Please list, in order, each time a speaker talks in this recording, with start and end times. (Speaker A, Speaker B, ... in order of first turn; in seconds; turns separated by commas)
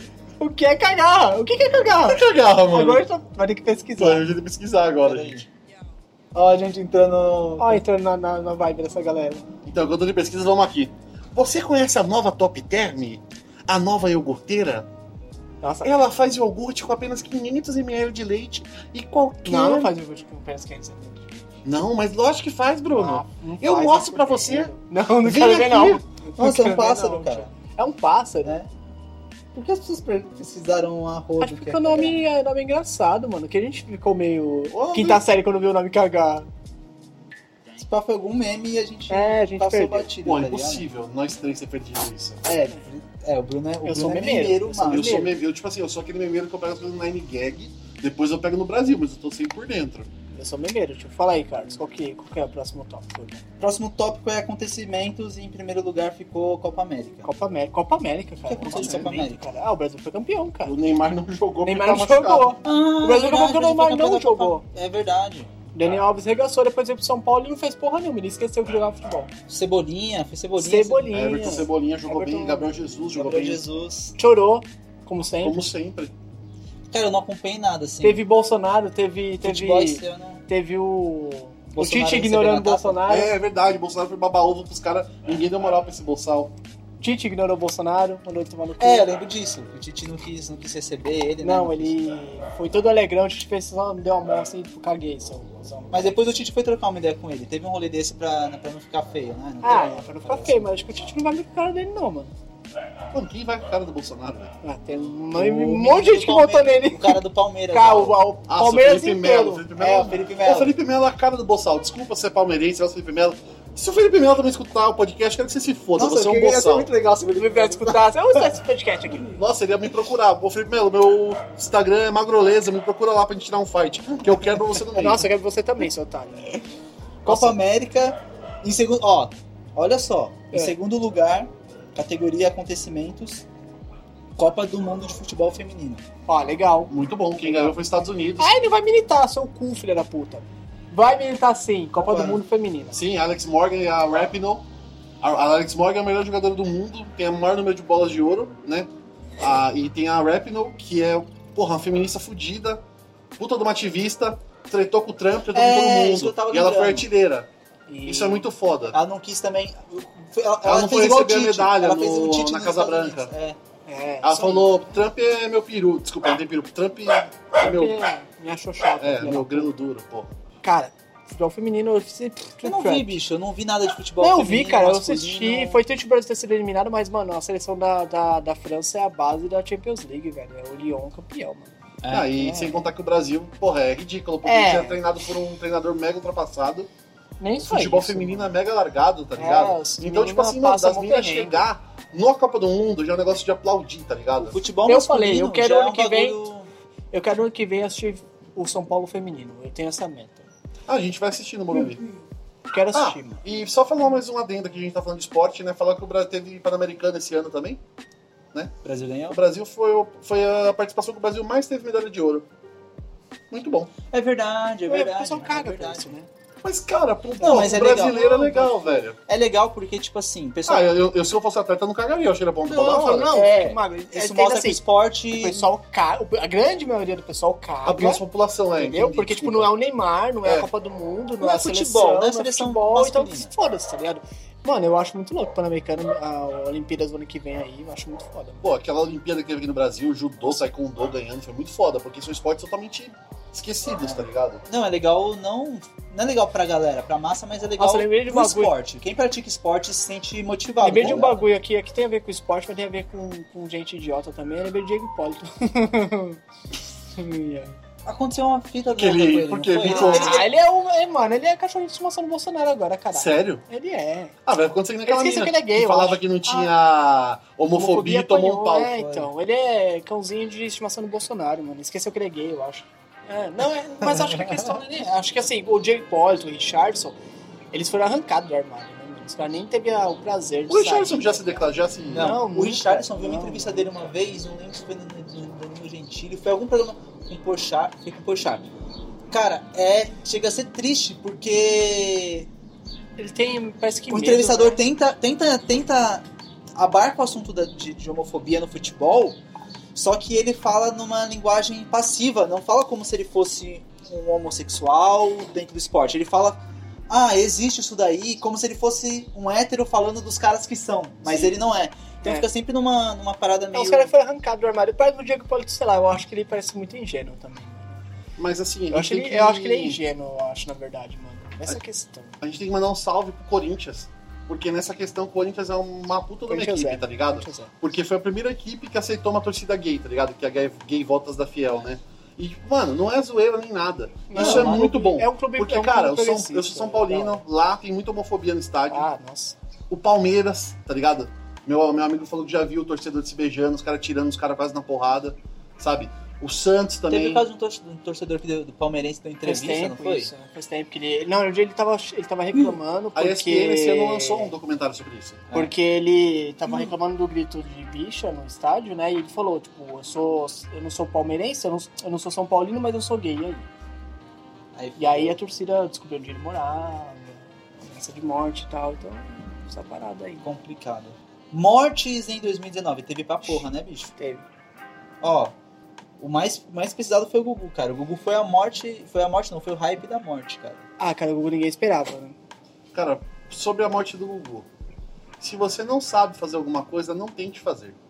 Speaker A: 0.4-4.3, Speaker B: 2.0-3.0, Speaker B: 4.0-5.5, Speaker C: 5.0-5.5, Speaker C: 6.3-7.8, Speaker A: 7.6-9.4, Speaker B: 9.7-14.9, Speaker A: 15.6-15.9, Speaker B: 15.8-19.9, Speaker A: 19.4-21.4, Speaker B: 21.6-24.7, Speaker A: 22.9-28.6, Speaker B: 25.2-26.0, Speaker C: 26.4-27.5, Speaker C: 28.4-28.7, Speaker C: 29.6-32.2, Speaker A: 31.4-36.5, Speaker C: 34.8-35.2, Speaker C: 37.7-40.9, Speaker A: 39.1-40.1, Speaker B: 40.2-42.4, Speaker C: 42.5-45.3, Speaker A: 43.9-45.3, Speaker B: 44.8-50.1, Speaker A: 50.3-53.4, Speaker C: 53.6-57.3, Speaker A: 57.2-60.7, Speaker C: 58.5-59.5, Speaker B: 58.5-59.2, Speaker B: 60.6-62.6, Speaker A: 61.6-64.6, Speaker C: 62.6-65.5, Speaker A: 65.7-69.3, Speaker C: 69.5-71.3, Speaker A: 70.6-72.7, Speaker B: 71.1-73.6, Speaker C: 73.1-74.2, Speaker A: 74.2-75.7, Speaker B: 75.4-76.2, Speaker C: 76.9-78.2, Speaker A: 78.0-83.3, Speaker C: 79.4-80.4, Speaker C: 81.8-83.0, Speaker B: 83.1-86.5, Speaker A: 87.0-89.1, Speaker C: 88.8-92.0, Speaker A: 91.4-96.2, Speaker C: 95.9-100.8, Speaker A: 99.6-102.3, Speaker B: 103.1-104.5, Speaker A: 104.6-107.2, Speaker C: 105.3-108.2, Speaker A: 107.7-109.7, Speaker B: 108.5-116.9, Speaker C: 109.8-110.7, Speaker C: 116.0-118.5, Speaker A: 117.3-119.4, Speaker B: 119.3-125.3, Speaker A: 124.9-126.6, Speaker C: 127.2-133.4, Speaker A: 127.3-127.5, Speaker C: 134.4-136.0, Speaker A: 136.3-136.9, Speaker B: 136.9-138.5, Speaker A: 137.5-137.8, Speaker A: 138.4-143.0, Speaker C: 142.0-142.4, Speaker B: 142.9-144.7, Speaker B: 145.2-152.8, Speaker B: 153.4-157.5, Speaker C: 155.5-157.1, Speaker A: 157.9-158.5, Speaker B: 158.1-159.0, Speaker C: 158.9-163.6, Speaker B: 160.6-163.3, Speaker A: 163.9-165.0, Speaker B: 164.2-168.0, Speaker A: 167.6-169.7, Speaker B: 169.0-170.3, Speaker A: 170.6-173.1, Speaker C: 172.6-175.8, Speaker A: 174.2-182.8, Speaker C: 182.0-182.3, Speaker B: 182.1-186.9, Speaker A: 184.4-185.0, Speaker A: 187.4-188.5, Speaker B: 187.6-194.6, Speaker A: 189.4-191.7, Speaker C: 194.5-196.7, Speaker A: 194.9-196.4, Speaker A: 197.1-200.5, Speaker B: 200.9-202.0, Speaker A: 202.7-203.4, Speaker B: 202.9-207.8, Speaker C: 208.8-209.4, Speaker B: 209.3-212.5, Speaker B: 213.5-213.9, Speaker C: 214.1-216.2, Speaker A: 214.9-216.3, Speaker B: 216.6-219.2, Speaker A: 217.4-219.0, Speaker C: 217.4-218.2, Speaker C: 219.3-220.9, Speaker B: 220.7-223.3, Speaker A: 222.7-228.2, Speaker C: 223.3-225.7, Speaker B: 227.8-229.7, Speaker A: 228.8-238.7, Speaker C: 231.4-233.5, Speaker B: 238.6-244.6, Speaker C: 244.0-251.4, Speaker A: 247.8-248.7, Speaker A: 250.8-256.4, Speaker A: 257.1-257.8, Speaker C: 258.1-260.5, Speaker B: 258.9-260.5, Speaker A: 259.8-264.4, Speaker B: 263.1-263.6, Speaker B: 264.5-269.1, Speaker A: 265.1-266.7, Speaker A: 267.7-277.2, Speaker C: 274.1-274.8, Speaker A: 277.7-283.9, Speaker B: 280.7-282.4, Speaker C: 282.1-288.7, Speaker C: 289.3-292.5, Speaker A: 293.2-294.8, Speaker C: 294.1-296.2, Speaker C: 296.8-299.4, Speaker C: 299.9-314.1, Speaker A: 313.7-318.0, Speaker B: 318.4-320.0, Speaker A: 318.9-322.4, Speaker B: 322.4-339.1, Speaker A: 326.5-327.8, Speaker A: 334.3-337.4, Speaker C: 334.3-334.9, Speaker A: 338.9-339.6, Speaker B: 339.9-347.4, Speaker C: 347.1-350.3, Speaker A: 349.4-354.5, Speaker B: 353.1-355.4, Speaker A: 355.5-363.7, Speaker C: 364.8-365.4, Speaker A: 365.0-370.5, Speaker C: 370.4-374.1, Speaker A: 374.2-374.4, Speaker C: 375.2-375.5, Speaker C: 376.2-380.8, Speaker A: 381.0-382.4, Speaker B: 382.9-384.7, Speaker B: 385.4-388.0